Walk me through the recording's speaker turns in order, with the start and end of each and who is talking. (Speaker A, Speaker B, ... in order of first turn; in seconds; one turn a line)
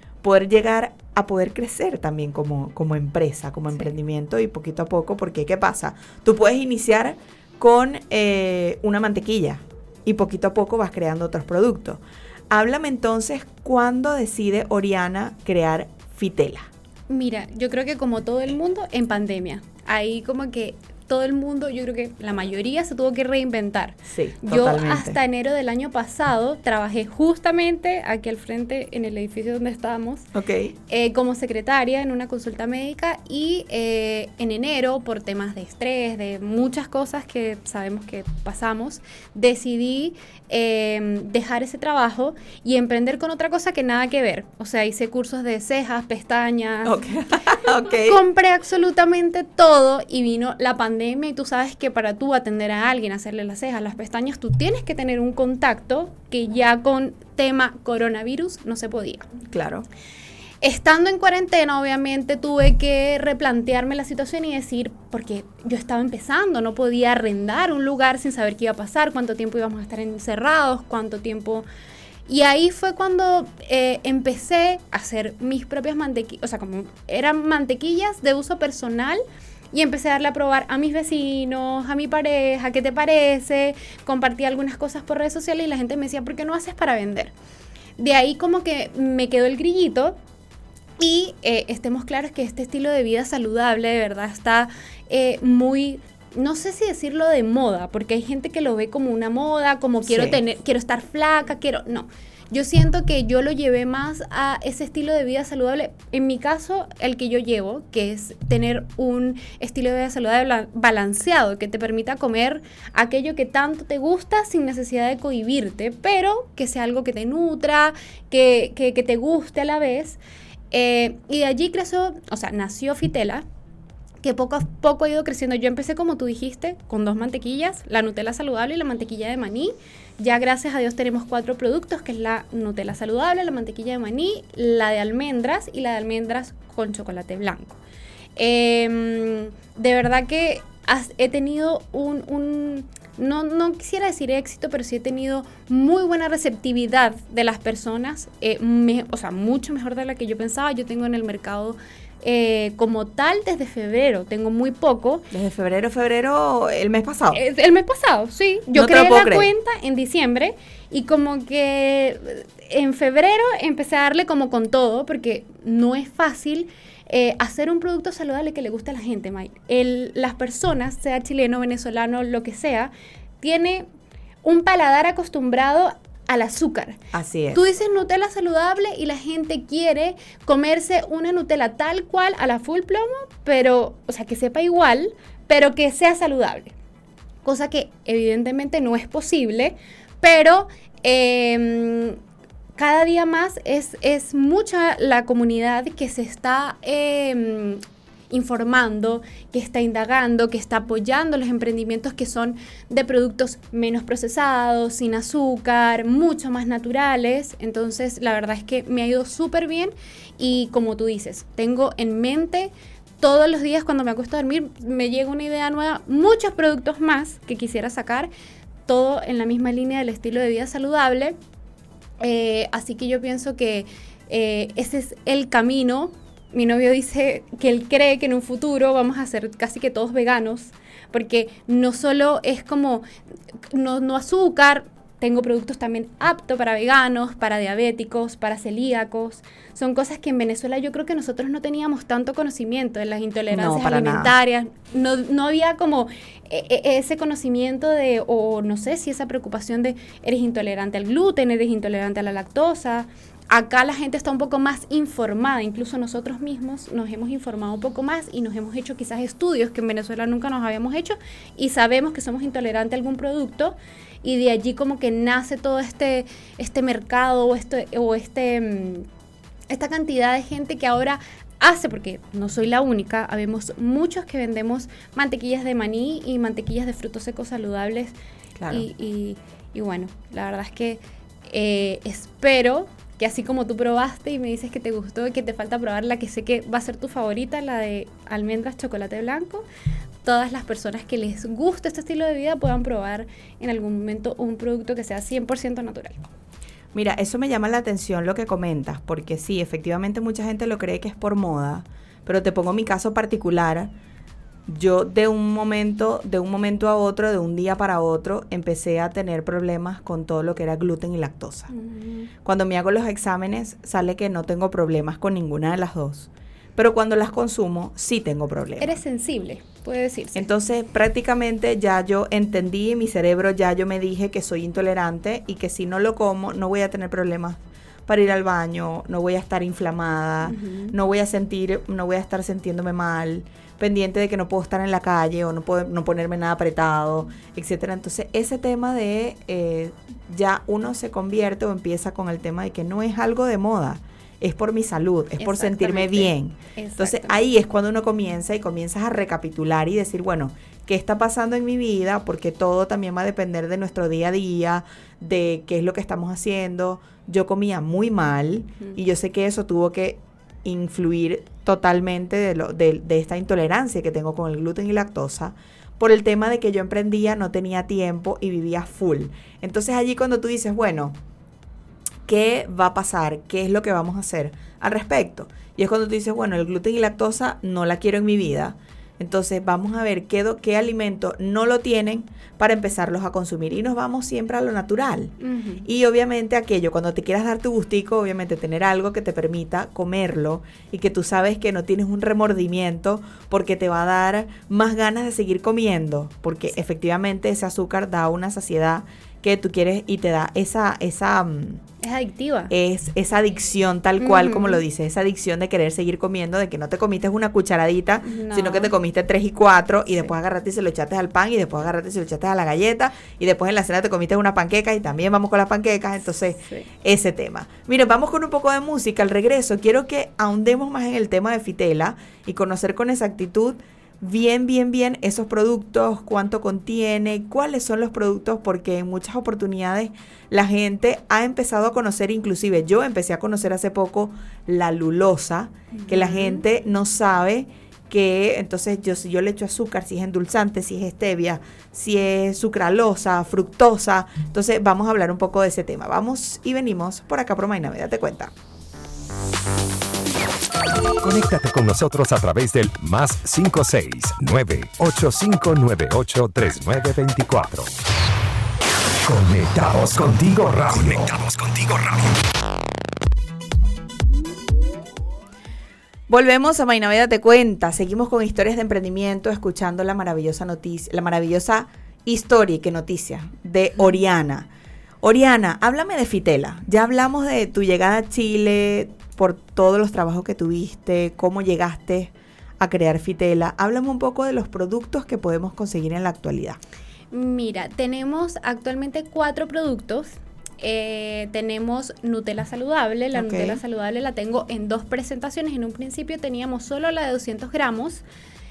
Speaker A: 0.2-16.7
Speaker B: 17.1-30.3
Speaker A: 24.1-25.2
Speaker A: 30.3-30.7
Speaker B: 30.9-47.2
Speaker A: 46.8-48.2
Speaker B: 47.9-59.3
Speaker A: 59.5-59.9
Speaker B: 60.6-71.6
Speaker B: 72.3-87.3
Speaker B: 88.0-90.2
Speaker B: 91.0-120.2
Speaker A: 100.0-100.4
Speaker B: 120.7-123.4
Speaker B: 124.2-137.8
Speaker B: 138.4-155.3
Speaker A: 155.3-157.4
Speaker B: 157.3-173.9
Speaker A: 158.7-159.5
Speaker B: 174.4-177.0
Speaker A: 177.1-177.6
Speaker B: 177.5-186.7
Speaker B: 187.4-192.2
Speaker B: 192.8-218.3
Speaker B: 218.9-221.3
Speaker B: 222.2-233.0
Speaker B: 233.7-269.1
Speaker A: 243.5-244.3
Speaker B: 269.7-278.1
Speaker A: 278.6-278.9
Speaker B: 278.7-289.6
Speaker B: 290.2-296.2
Speaker A: 296.9-303.9
Speaker A: 304.7-311.7
Speaker B: 311.7-312.3
Speaker A: 312.4-319.0
Speaker B: 318.8-320.4
Speaker A: 320.3-371.2
Speaker B: 330.4-330.9
Speaker B: 345.4-347.4
Speaker A: 372.2-401.8
Speaker B: 385.4-385.9
Speaker B: 402.0-402.7
Speaker A: 402.7-448.5
Speaker B: 404.2-404.8
Speaker B: 408.2-408.9
Speaker B: 416.6-416.9
Speaker B: 435.9-436.6
Speaker C: 451.2-457.9
Speaker C: 459.2-462.4
Speaker A: 466.3-474.7
Speaker A: 475.2-486.8
Speaker B: 487.3-498.2
Speaker A: 493.3-493.8